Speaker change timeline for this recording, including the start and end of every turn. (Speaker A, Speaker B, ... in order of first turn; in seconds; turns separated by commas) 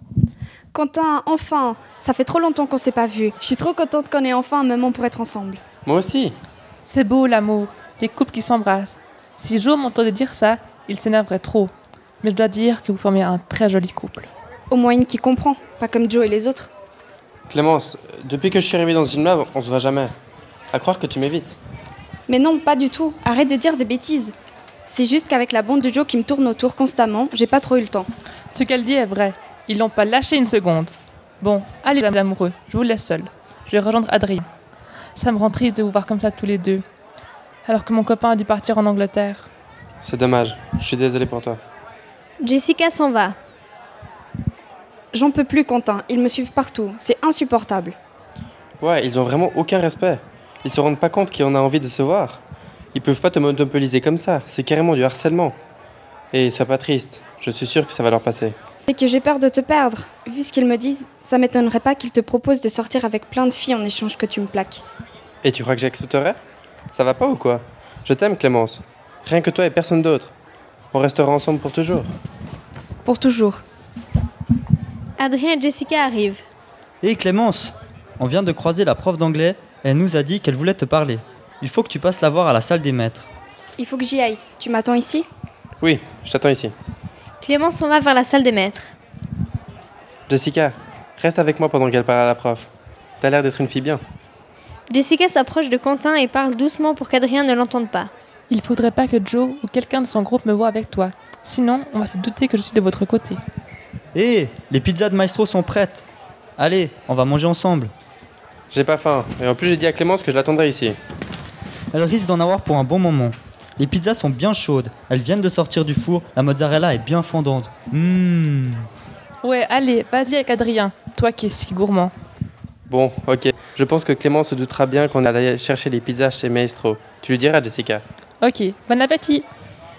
Speaker A: 0.7-5.6, Speaker B: 5.8-6.4, Speaker C: 6.8-14.3, Speaker A: 14.7-16.7, Speaker B: 17.5-20.1, Speaker B: 20.7-21.6, Speaker A: 22.3-24.4, Speaker A: 24.9-28.1, Speaker C: 28.5-34.5, Speaker C: 35.1-36.9, Speaker C: 37.6-39.5, Speaker B: 40.0-41.6, Speaker D: 42.4-43.4, Speaker A: 45.1-48.0, Speaker B: 48.8-52.4, Speaker B: 52.9-55.6, Speaker B: 56.3-58.6, Speaker A: 58.9-64.8, Speaker B: 65.4-66.4, Speaker B: 66.9-70.3, Speaker B: 70.9-72.1, Speaker A: 73.0-73.6, Speaker D: 75.2-76.4, Speaker E: 77.0-83.3, Speaker A: 83.8-85.3, Speaker B: 85.8-86.7, Speaker D: 87.4-88.9, Speaker B: 90.3-92.7, Speaker B: 93.2-94.0, Speaker D: 94.9-98.1, Speaker C: 98.5-103.4, Speaker E: 104.2-106.1, Speaker E: 106.6-107.9, Speaker B: 108.7-111.0, Speaker E: 111.9-118.9, Speaker C: 119.4-122.1, Speaker B: 122.9-128.0, Speaker C: 128.4-129.5